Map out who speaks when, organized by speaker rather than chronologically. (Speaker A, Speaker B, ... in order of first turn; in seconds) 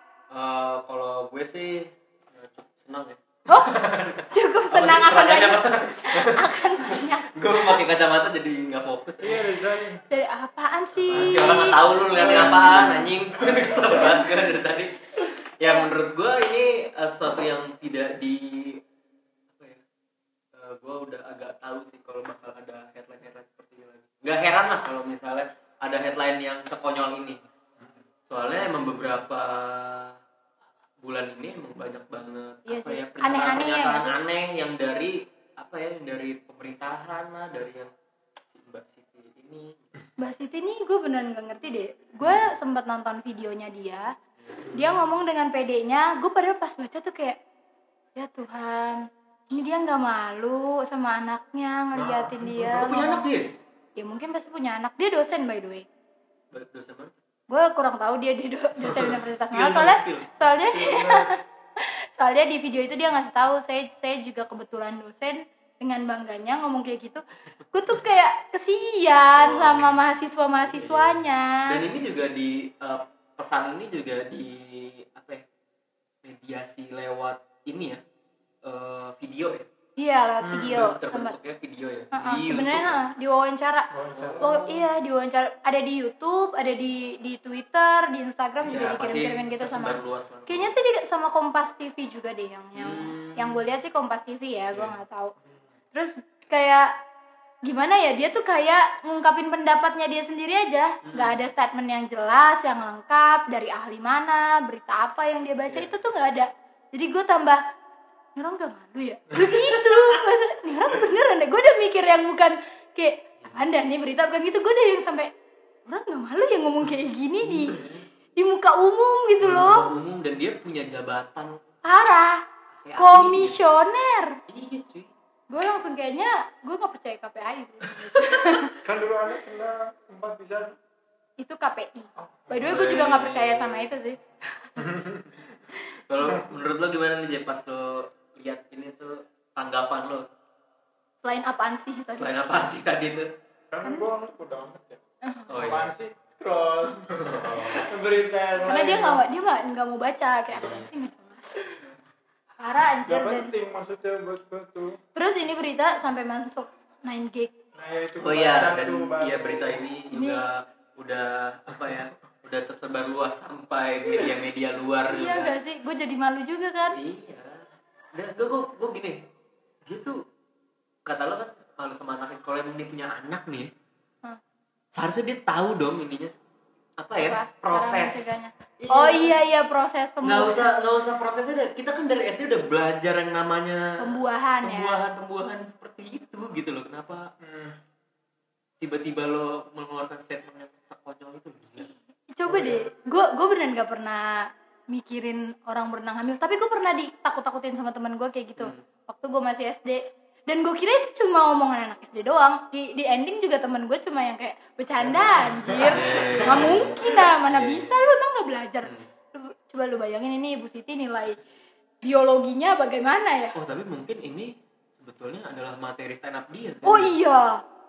Speaker A: 0.3-9.4, 10.9-15.0, 15.6-18.8, 19.5-19.8, 20.5-30.2, 31.0-37.9, 38.5-39.9, 44.4-44.7, 52.5-53.5, 56.5-57.1, 58.8-60.5, 69.4-70.1, 70.7-75.4, 76.2-78.0, 78.6-79.7, 80.7-83.0, 84.1-84.5, 88.6-90.7, 92.8-93.6, 101.0-101.4, 109.4-110.2, 117.4-118.1, 119.4-121.6, 122.8-123.6, 124.5-125.1, 127.8-128.7, 132.6-133.9, 136.1-140.3, 142.1-143.3, 145.5-145.9, 147.2-147.9, 150.5-150.9, 158.2-165.6, 166.9-169.2, 169.8-170.2, 171.1-173.7, 174.9-176.3, 177.0-179.4, 180.2-187.3, 188.8-191.9, 198.6-198.8, 205.9-207.9, 208.8-209.1, 213.5-217.1
Speaker B: 4.3-7.8, 10.1-13.1, 15.6-15.9, 32.7-34.1, 40.2-44.1, 44.7-47.4, 48.1-53.3, 54.0-55.8, 57.5-71.6, 80.0-81.3, 82.1-95.3, 95.9-96.9, 97.6-107.6, 108.3-115.3, 115.8-117.8, 118.3-119.9, 121.8-122.4, 123.0-124.4, 125.5-128.7, 131.4-134.8, 141.2-142.3, 143.8-144.1, 145.2-145.5, 148.6-151.6, 152.6-153.5, 155.1-157.5, 160.1-160.4, 165.1-167.0, 177.2-180.7, 184.0-185.0, 191.8-211.4, 212.0-213.5, 216.8-217.6
Speaker C: 9.2-10.0, 12.2-12.8, 13.4-13.8, 44.7-45.0, 51.9-52.9, 60.7-61.2, 80.4-80.9, 83.9-84.8, 128.8-130.8, 132.2-132.8, 134.8-135.6, 143.7-145.0, 145.5-149.2, 153.1-155.0, 157.8-159.8, 187.4-187.8, 192.4-192.8, 205.0-207.2